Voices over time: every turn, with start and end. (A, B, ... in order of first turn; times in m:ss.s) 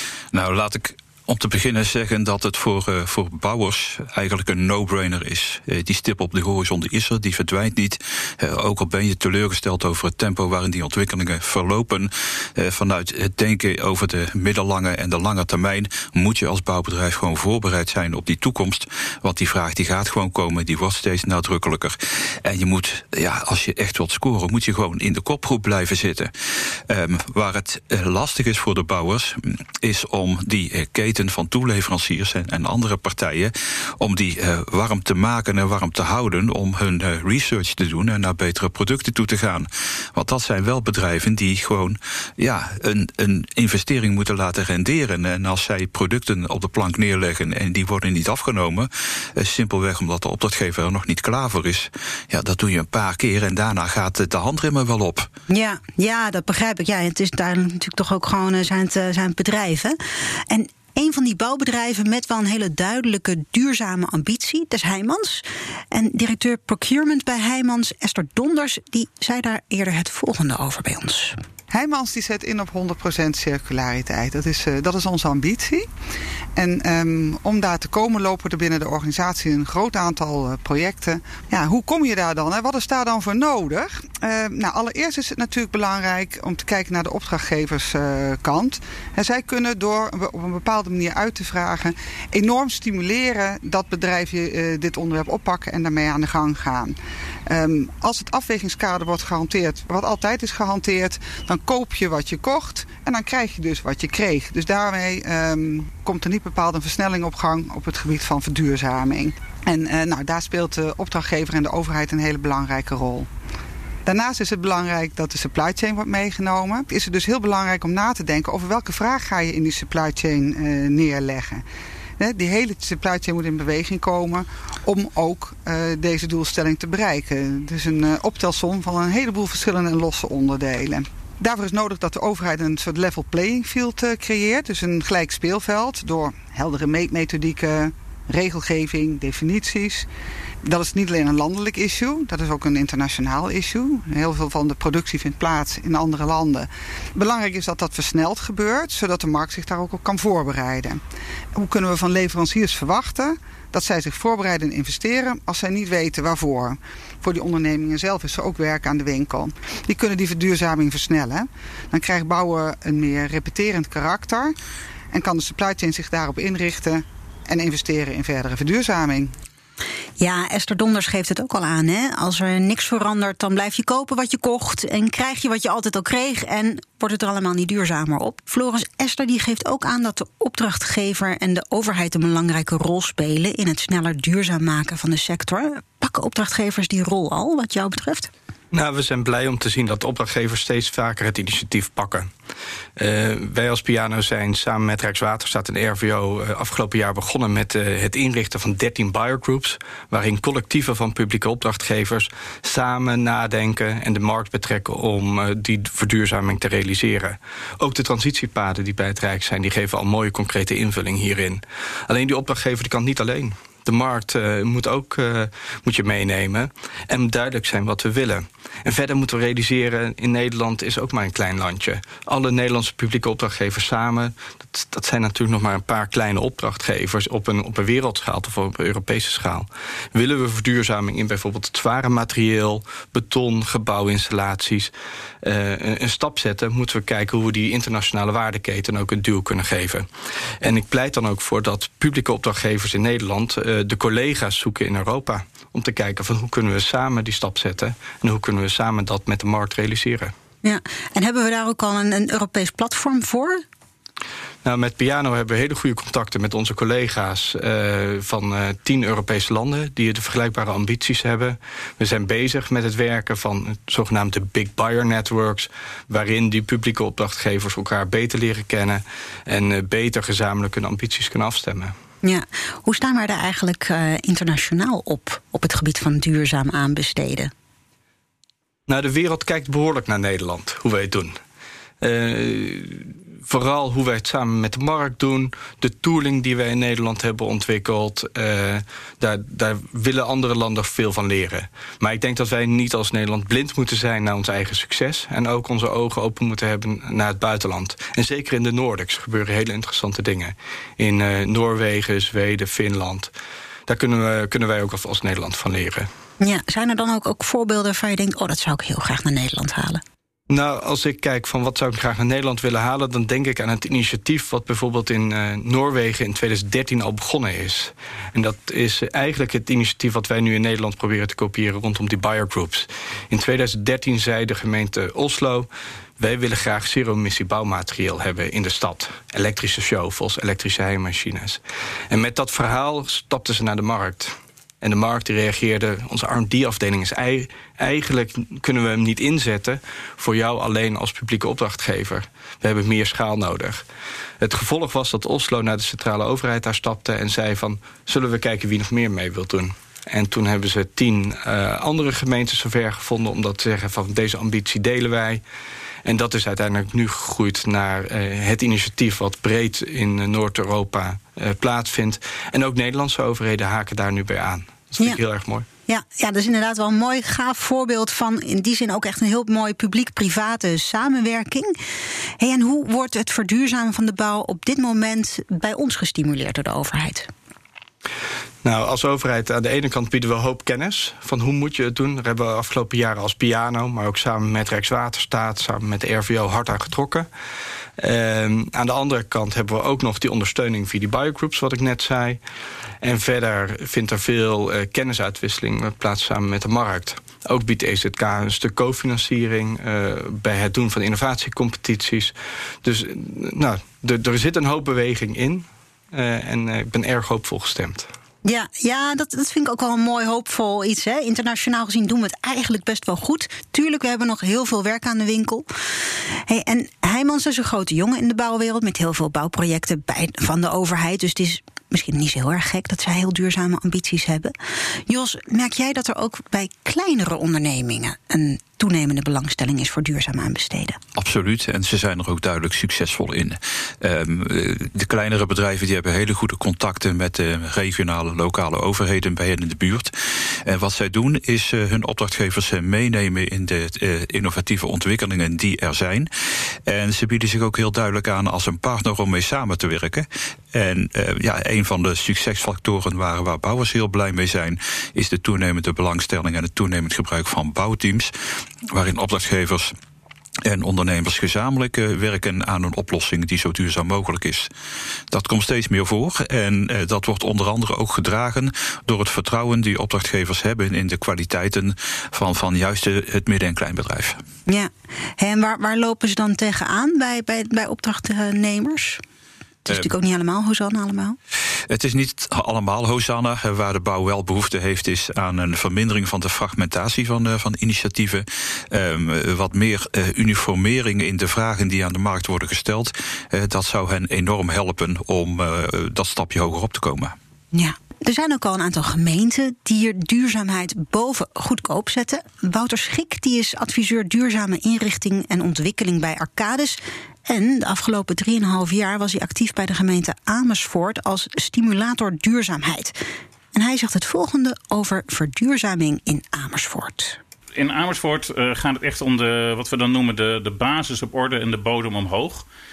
0:00.3-0:55.3 A
0:55.5-1:00.0 B
1:00.5-1:11.4 B
1:11.7-1:15.9 C
1:16.6-1:37.0 C
1:37.5-1:53.3 C
1:54.0-2:01.6 C
2:02.2-2:20.1 C
2:20.6-2:31.0 C
2:31.5-2:44.5 C
2:45.1-2:49.3 C
2:50.2-3:08.3 B
3:08.7-3:12.3 D
3:13.0-4:00.1 D
4:00.6-4:10.3 D
4:10.6-4:13.6 B
4:14.6-4:31.9 D
4:32.2-4:37.5 B
4:38.9-4:41.4 D
4:42.0-5:03.3 D
5:03.9-5:06.1 D
5:06.4-5:10.0 B
5:10.5-5:25.7 D
5:26.2-5:43.8 D
5:44.4-5:55.4 D
5:56.0-6:05.6 D
6:05.9-6:11.8 B
6:12.4-6:17.3 B
6:18.6-6:27.3 D
6:28.0-6:32.4 D
6:33.0-6:48.1 D
6:48.4-6:55.6 B
6:56.5-7:04.5 B
7:05.1-7:11.0 B
7:11.1-7:26.3 A
7:26.8-7:38.3 A
7:38.9-7:39.9 A
7:40.6-7:44.7 A
7:45.3-7:54.4 A
7:54.7-7:59.2 B
7:59.8-8:01.4 B
8:01.9-8:17.3 A
8:17.7-8:33.2 B
8:33.7-8:37.4 B
8:37.8-8:42.6 E